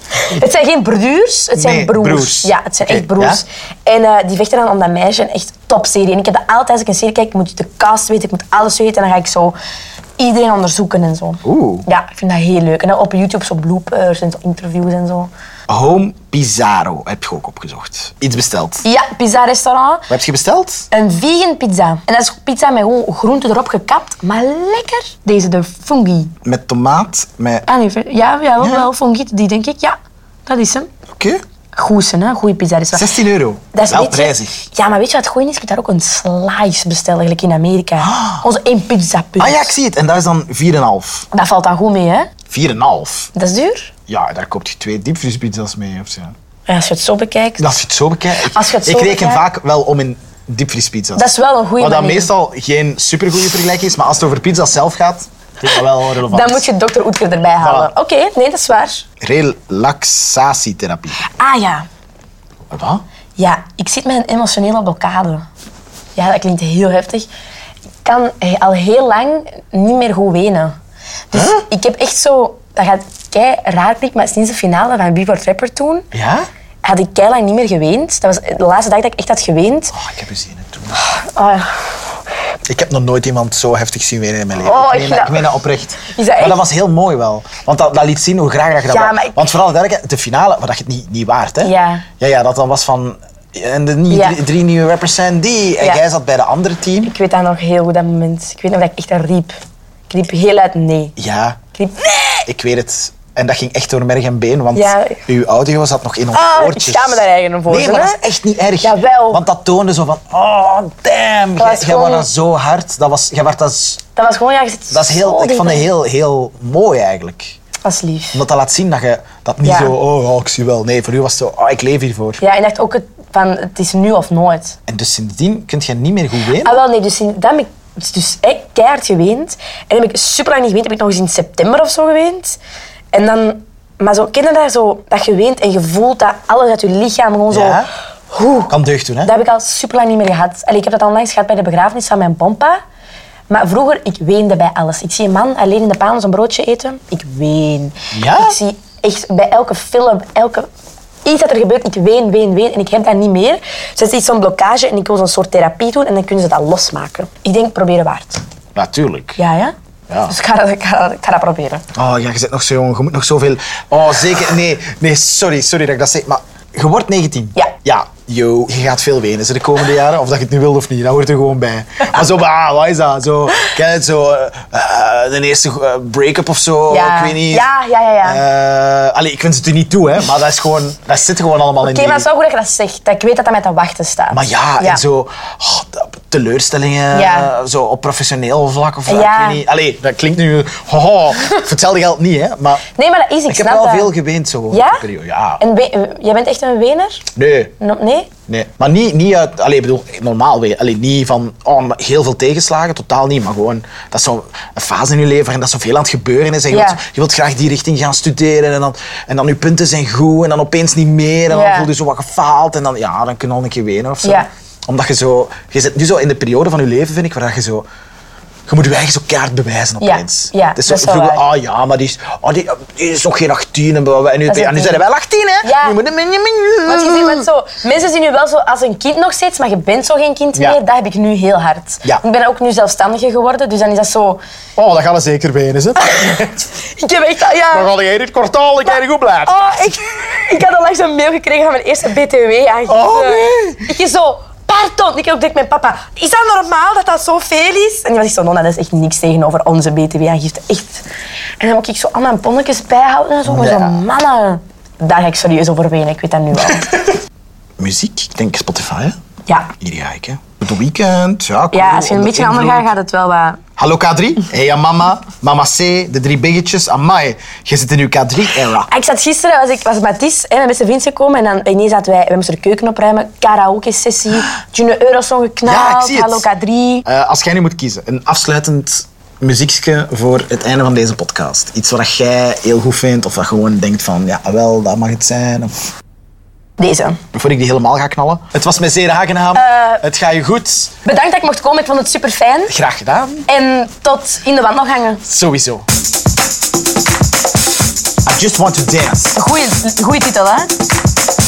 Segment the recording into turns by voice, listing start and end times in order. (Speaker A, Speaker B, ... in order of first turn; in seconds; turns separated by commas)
Speaker A: 0.2-9.6, Speaker B: 1.6-3.4, Speaker A: 10.2-15.3, Speaker B: 11.4-11.9, Speaker B: 15.7-18.8, Speaker A: 18.8-20.1, Speaker B: 20.1-20.9, Speaker A: 20.9-26.3, Speaker B: 26.4-27.7, Speaker A: 27.7-30.9, Speaker B: 28.6-28.9, Speaker B: 31.1-31.4, Speaker A: 31.8-33.1, Speaker B: 32.9-34.6, Speaker A: 33.7-39.7, Speaker B: 38.0-38.4, Speaker B: 39.4-41.3, Speaker A: 41.3-42.3, Speaker B: 42.5-43.3, Speaker A: 43.4-43.9, Speaker B: 44.1-46.4, Speaker A: 46.7-47.7, Speaker B: 47.6-56.7, Speaker A: 48.5-49.5, Speaker A: 51.2-52.3, Speaker A: 56.3-59.1, Speaker B: 57.6-57.9, Speaker B: 59.2-61.2, Speaker A: 61.2-61.9, Speaker B: 62.7-63.0, Speaker A: 63.4-65.5, Speaker A: 66.2-67.3, Speaker A: 68.0-70.8, Speaker A: 71.3-76.1, Speaker B: 71.3-71.6, Speaker B: 76.1-76.5, Speaker A: 76.8-80.0, Speaker B: 79.9-81.0, Speaker A: 81.0-81.9, Speaker B: 82.7-97.1, Speaker A: 84.6-85.5, Speaker A: 86.0-86.6, Speaker A: 88.9-89.4, Speaker A: 91.6-92.1, Speaker A: 94.1-94.4, Speaker A: 97.1-99.6, Speaker A: 100.1-101.2, Speaker B: 101.2-101.6, Speaker A: 101.7-102.5, Speaker B: 102.5-114.0, Speaker A: 104.8-105.2, Speaker A: 106.3-108.2, Speaker A: 108.8-109.4, Speaker A: 111.6-112.3, Speaker A: 114.2-115.9, Speaker B: 114.9-117.6, Speaker A: 117.8-118.4, Speaker B: 118.3-122.4, Speaker A: 119.6-119.9, Speaker A: 122.4-124.8, Speaker B: 124.9-126.8, Speaker A: 126.6-132.6, Speaker A: 133.1-138.7, Speaker B: 137.5-137.9, Speaker B: 138.7-139.3, Speaker A: 139.2-142.8, Speaker A: 143.5-150.7, Speaker B: 148.1-148.6, Speaker A: 151.2-158.4, Speaker B: 158.8-159.4, Speaker A: 159.4-159.8, Speaker B: 160.1-160.3, Speaker A: 160.3-161.8, Speaker B: 161.9-177.7, Speaker A: 176.9-178.4, Speaker B: 178.2-182.3, Speaker A: 181.8-185.0, Speaker B: 184.3-192.9, Speaker A: 187.1-187.5, Speaker A: 189.1-189.6, Speaker A: 192.9-194.1, Speaker B: 193.5-195.6, Speaker A: 194.7-195.0, Speaker A: 195.6-197.3, Speaker B: 197.4-197.7, Speaker A: 197.8-198.3, Speaker B: 198.5-217.9, Speaker A: 206.7-207.0, Speaker A: 211.5-211.9, Speaker A: 214.2-214.5, Speaker B: 218.7-227.5, Speaker A: 220.0-221.4, Speaker A: 224.5-225.0, Speaker A: 225.6-226.0, Speaker A: 226.8-234.4, Speaker B: 234.8-236.6, Speaker A: 236.0-237.9, Speaker B: 237.7-240.0, Speaker A: 239.4-251.1, Speaker B: 242.9-243.9, Speaker A: 251.6-256.9, Speaker B: 253.4-254.0, Speaker B: 257.8-259.2, Speaker B: 259.8-262.9, Speaker A: 261.7-263.6, Speaker B: 263.8-268.9, Speaker A: 268.9-277.1, Speaker B: 275.6-276.5, Speaker B: 277.1-285.9, Speaker A: 286.8-287.2, Speaker B: 287.3-290.9, Speaker A: 289.6-290.0, Speaker A: 291.1-292.8, Speaker B: 292.7-293.5, Speaker A: 293.5-295.2, Speaker B: 295.3-295.9, Speaker B: 298.2-299.3, Speaker A: 299.3-300.7